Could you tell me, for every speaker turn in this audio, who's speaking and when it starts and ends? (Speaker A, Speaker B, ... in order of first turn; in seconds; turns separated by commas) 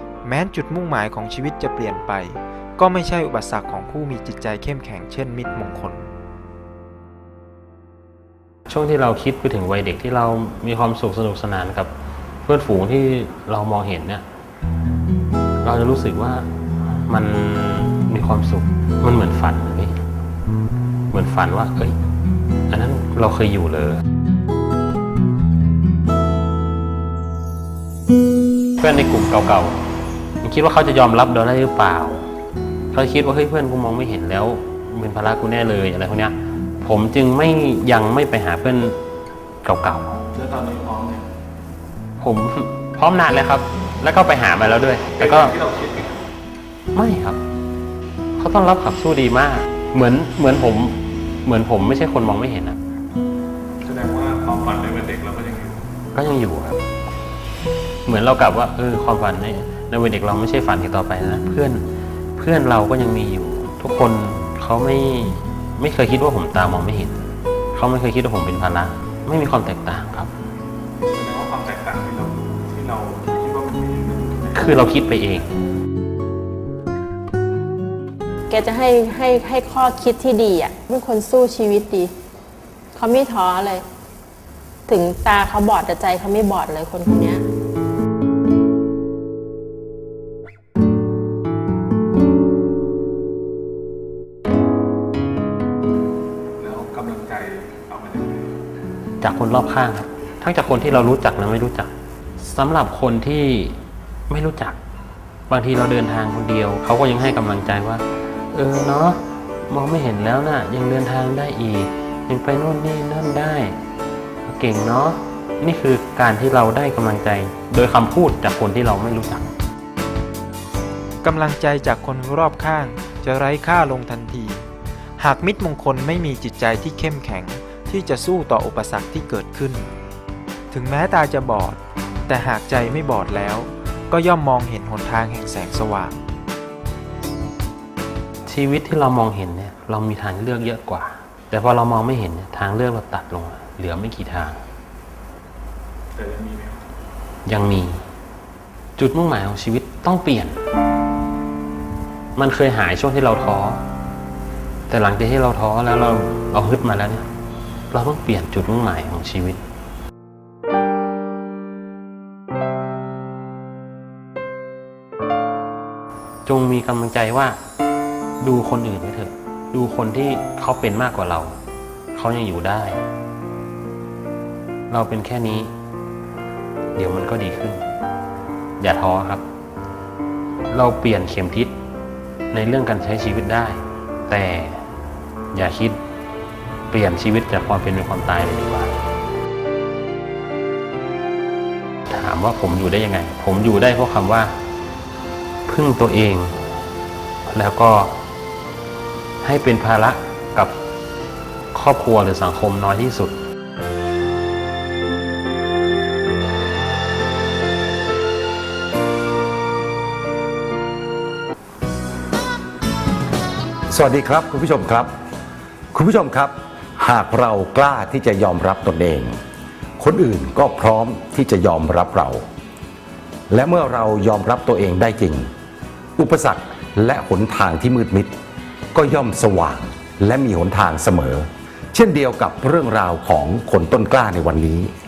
Speaker A: 0.2-6.1, Speaker B: 8.7-11.9, Speaker B: 12.4-14.2, Speaker B: 15.6-20.0, Speaker B: 21.1-21.9, Speaker B: 22.7-24.0, Speaker B: 28.8-29.8, Speaker B: 30.4-32.2, Speaker B: 32.9-39.0, Speaker B: 39.6-40.2, Speaker C: 40.3-41.2, Speaker B: 42.2-45.5, Speaker C: 45.2-46.2, Speaker B: 46.9-47.4, Speaker B: 48.4-52.8, Speaker C: 53.8-55.8, Speaker B: 56.1-56.8, Speaker B: 58.0-61.8, Speaker B: 62.4-67.2, Speaker B: 67.7-70.3, Speaker C: 71.1-74.9, Speaker B: 74.5-75.5, Speaker D: 78.5-82.1, Speaker D: 82.9-83.8, Speaker D: 84.9-87.4, Speaker C: 96.6-98.5, Speaker B: 99.2-103.8, Speaker B: 104.3-104.8, Speaker B: 105.5-113.8, Speaker B: 114.4-119.5, Speaker A: 121.2-124.6, Speaker A: 125.2-129.9, Speaker A: 130.7-136.2, Speaker B: 138.4-144.6, Speaker C: 146.1-146.8, Speaker B: 147.4-148.0, Speaker B: 149.0-150.6, Speaker B: 152.3-153.8, Speaker B: 154.9-157.3, Speaker B: 157.9-159.6, Speaker B: 166.4-167.6, Speaker B: 168.4-171.5, Speaker B: 172.1-173.0, Speaker B: 174.9-175.7, Speaker B: 176.9-177.8, Speaker B: 178.8-179.4, Speaker B: 180.7-181.7, Speaker B: 182.5-184.8, Speaker B: 185.5-186.0, Speaker B: 186.9-188.9, Speaker B: 192.1-194.5, Speaker B: 195.7-196.5, Speaker B: 197.5-198.2, Speaker B: 199.4-200.7, Speaker B: 201.7-203.3, Speaker E: 213.9-215.1, Speaker E: 215.9-219.4, Speaker E: 220.0-222.4, Speaker E: 223.5-225.5, Speaker E: 226.2-228.3, Speaker E: 228.9-234.9